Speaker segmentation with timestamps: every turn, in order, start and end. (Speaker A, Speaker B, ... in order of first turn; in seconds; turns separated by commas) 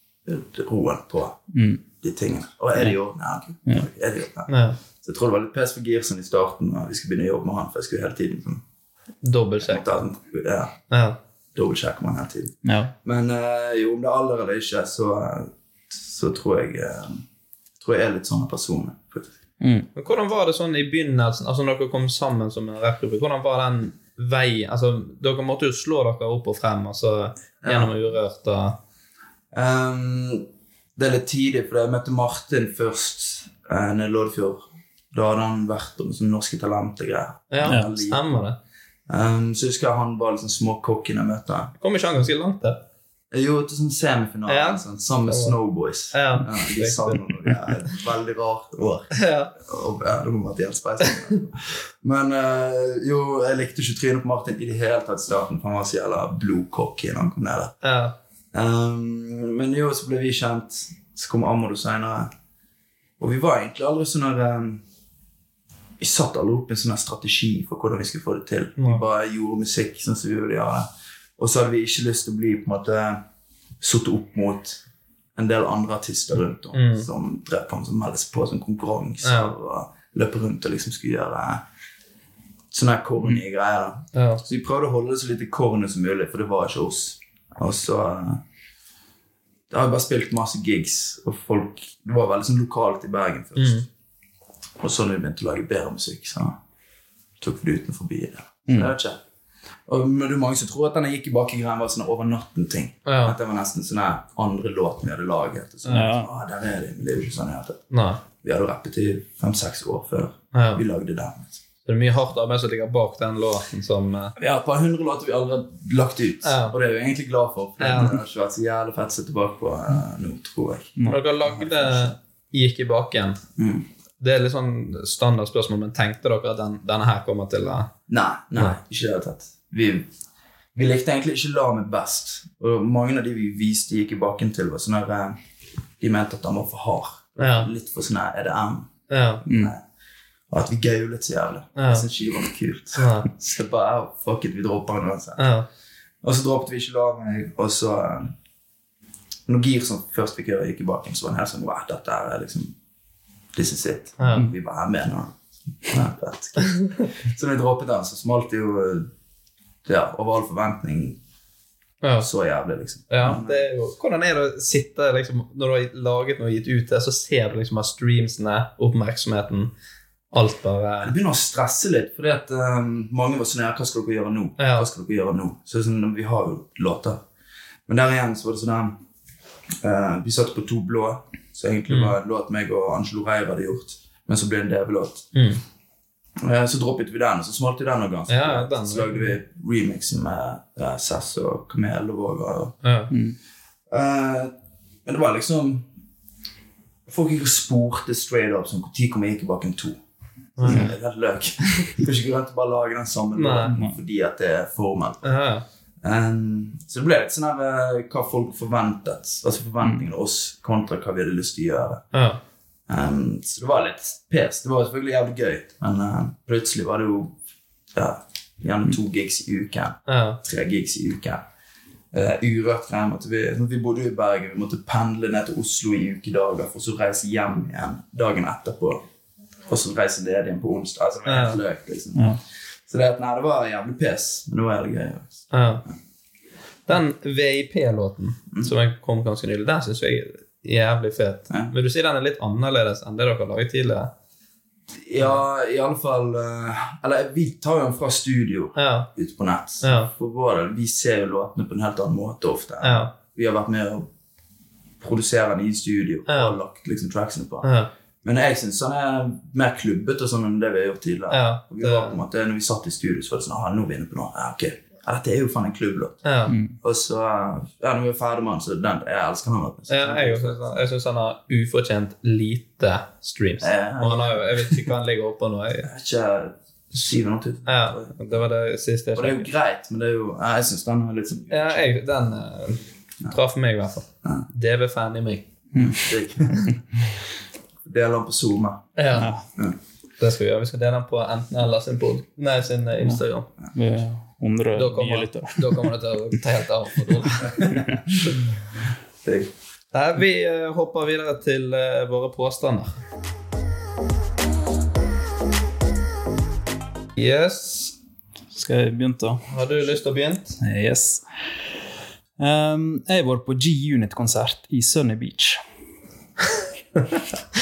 Speaker A: 0.2-1.4, Speaker B: 1.5-1.8, Speaker A: 2.0-8.6, Speaker C: 4.5-4.8, Speaker C: 9.2-9.8, Speaker A: 9.6-10.7, Speaker C: 10.9-11.2, Speaker A: 11.5-17.2, Speaker B: 12.6-12.9, Speaker A: 17.8-19.3, Speaker B: 19.6-19.9, Speaker C: 19.9-28.8, Speaker A: 27.6-27.9, Speaker A: 29.5-30.4, Speaker A: 30.9-38.2, Speaker C: 37.5-38.6, Speaker A: 39.1-41.7, Speaker C: 41.8-42.8, Speaker A: 43.3-57.8, Speaker C: 44.5-45.5, Speaker C: 46.1-47.2, Speaker C: 49.1-49.5, Speaker C: 57.8-58.1, Speaker A: 58.5-62.3, Speaker A: 63.2-64.8, Speaker A: 66.0-73.2, Speaker C: 68.8-69.0, Speaker A: 73.8-74.8, Speaker A: 75.4-81.6, Speaker C: 76.7-77.1, Speaker C: 79.2-79.5, Speaker A: 82.7-88.4, Speaker C: 84.1-84.4, Speaker A: 89.7-93.9, Speaker C: 93.6-93.8, Speaker A: 94.8-96.6, Speaker A: 97.4-99.2, Speaker A: 99.9-107.8, Speaker C: 103.0-103.4, Speaker B: 105.9-106.3, Speaker C: 107.9-108.2, Speaker A: 108.4-111.6, Speaker C: 110.5-110.8, Speaker C: 111.9-114.3, Speaker A: 114.4-122.2, Speaker C: 116.4-116.8, Speaker C: 117.8-118.2, Speaker C: 121.1-123.4, Speaker A: 123.6-123.9, Speaker C: 124.2-127.9, Speaker A: 128.1-130.1, Speaker A: 130.8-135.4, Speaker A: 136.0-138.9, Speaker C: 137.4-137.7, Speaker C: 139.1-139.4, Speaker A: 139.4-139.8, Speaker A: 140.5-145.5, Speaker C: 141.8-142.1, Speaker C: 142.9-143.3, Speaker C: 145.4-145.7, Speaker A: 146.2-148.3, Speaker A: 149.5-152.7, Speaker A: 153.5-159.1, Speaker C: 154.2-154.5, Speaker A: 159.8-161.2, Speaker C: 162.0-162.3, Speaker A: 162.2-163.7, Speaker C: 163.1-169.7, Speaker C: 170.3-171.1, Speaker A: 171.0-177.2, Speaker C: 174.6-174.9, Speaker A: 177.9-179.0, Speaker A: 179.8-185.3, Speaker C: 181.9-182.1, Speaker C: 185.3-185.6, Speaker A: 186.4-192.7, Speaker C: 188.3-189.3, Speaker C: 192.8-193.1, Speaker B: 193.1-193.4, Speaker A: 193.9-194.5, Speaker A: 195.1-195.8, Speaker A: 197.1-200.0, Speaker C: 200.6-200.9, Speaker A: 200.6-205.4, Speaker B: 200.7-200.9, Speaker C: 203.3-203.7, Speaker C: 205.2-205.6, Speaker A: 206.0-212.0, Speaker C: 212.1-212.4, Speaker A: 212.9-217.3, Speaker A: 217.9-221.4, Speaker C: 220.1-220.4, Speaker A: 222.1-229.0, Speaker A: 229.7-232.3, Speaker C: 231.2-231.6, Speaker A: 232.9-235.5, Speaker C: 235.5-235.8, Speaker C: 236.9-244.1, Speaker A: 245.0-254.1, Speaker C: 248.8-249.1, Speaker C: 249.8-250.1, Speaker C: 252.8-253.1, Speaker A: 255.0-257.7, Speaker C: 256.3-256.6, Speaker C: 257.6-257.9, Speaker A: 258.2-266.2, Speaker C: 261.3-262.2, Speaker C: 266.2-266.5, Speaker B: 266.5-266.8, Speaker A: 266.8-270.8, Speaker C: 269.9-275.9, Speaker A: 273.6-274.9, Speaker A: 275.8-278.4, Speaker C: 277.7-279.5, Speaker A: 279.1-281.9, Speaker C: 281.5-285.4, Speaker B: 285.7-286.0, Speaker A: 285.7-286.8, Speaker A: 287.9-288.9, Speaker C: 288.9-289.3, Speaker B: 289.1-289.4, Speaker C: 290.2-293.5, Speaker B: 293.7-295.9, Speaker C: 294.7-297.8, Speaker A: 297.4-297.9, Speaker B: 297.6-298.0, Speaker A: 299.2-299.5, Speaker C: 299.9-303.0, Speaker C: 307.1-307.9, Speaker B: 308.5-309.4, Speaker C: 309.5-310.6, Speaker B: 310.6-311.2, Speaker B: 312.4-315.6